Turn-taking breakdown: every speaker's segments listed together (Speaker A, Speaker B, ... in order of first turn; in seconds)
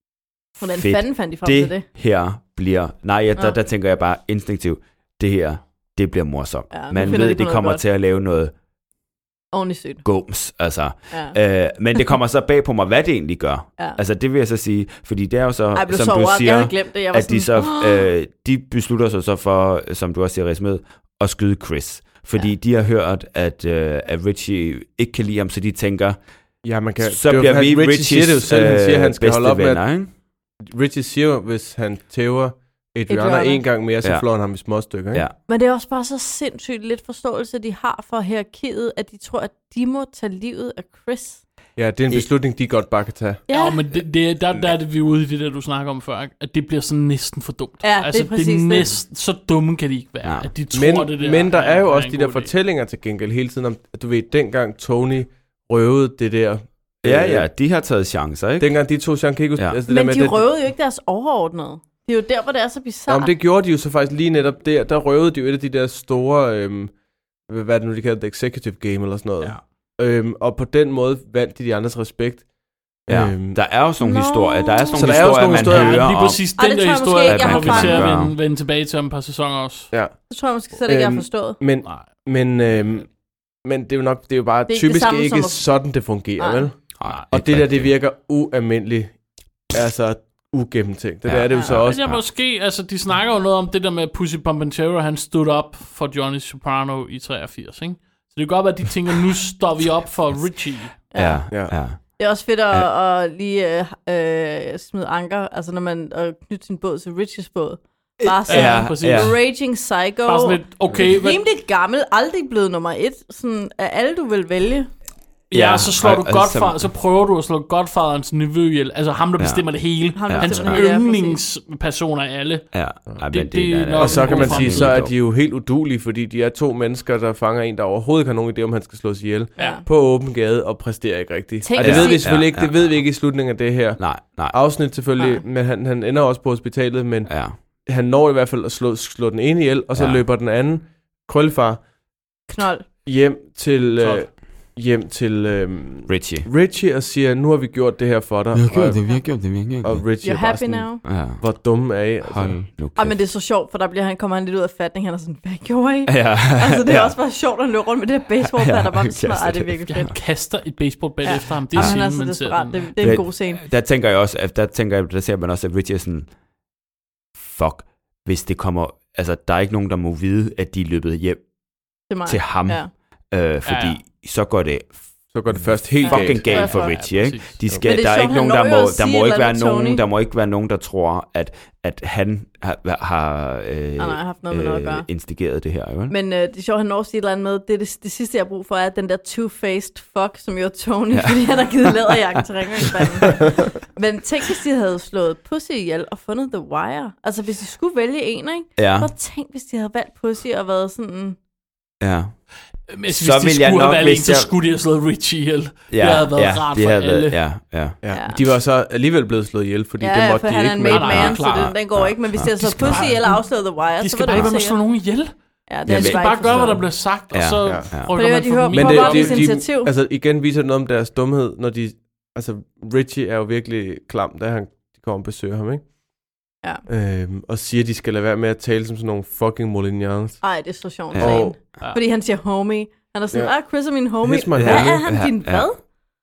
Speaker A: 0.6-1.9, 6.7-7.8, 9.5-10.0, 15.7-18.1, 33.1-33.6, 35.5-41.4, 43.5-43.8, 47.8-48.9, 59.9-63.3, 74.0-75.0, 76.5-78.1, 80.3-81.6, 84.7-85.6, 86.4-86.7, 101.1-101.5, 102.2-114.9, 120.2-121.4, 129.6-129.8, 131.6-132.3, 135.2-135.4, 142.5-142.9, 150.2-151.0, 153.0-160.1, 161.2-163.6, 172.1-172.9, 176.0-177.0, 177.8-180.0, 184.0-185.1, 186.1-201.4, 208.1-208.5, 210.0-214.8, 215.7-216.8, 218.2-219.9, 230.4-235.8
Speaker B: 0.7-8.5, 10.0-26.2, 27.0-30.1, 50.2-50.5, 57.0-58.8, 73.1-76.5, 77.2-78.4, 87.0-87.9, 91.2-92.2, 101.1-102.0, 108.2-109.3, 115.5-116.9, 119.4-120.9, 122.7-125.1, 131.8-133.1, 134.0-134.7, 137.3-137.6, 139.9-140.2, 146.1-146.5, 148.5-150.1, 151.0-153.2, 156.1-157.2, 158.4-160.2, 163.0-166.3, 167.4-171.4, 172.3-174.9, 175.5-186.1, 191.1-192.2, 198.8-199.1, 202.0-202.4, 203.1-204.5, 205.9-208.0, 211.3-213.1, 214.3-214.6, 215.9-218.2, 231.1-231.6, 234.6-235.7
Speaker C: 26.6-29.9, 30.6-35.3, 41.8-43.4, 50.7-57.5, 58.6-60.5, 63.1-66.9, 67.5-72.5, 73.1-73.6, 74.9-76.0, 79.9-80.3, 80.9-83.1, 83.6-86.8, 87.3-89.2, 89.7-92.1, 124.0-141.8, 143.1-149.0, 149.8-152.6, 175.3-176.7, 208.0-211.4, 218.7-225.8, 226.9-230.4, 231.2-231.6, 234.2-235.0
Speaker D: 43.5-52.5, 75.2-79.9, 91.7-101.0, 108.5-109.5, 110.3-111.4, 115.5-122.7, 123.3-125.0, 160.1-163.2, 173.7-174.0, 176.5-177.6, 202.9-207.4, 210.9-211.7, 212.4-215.3, 215.8-219.5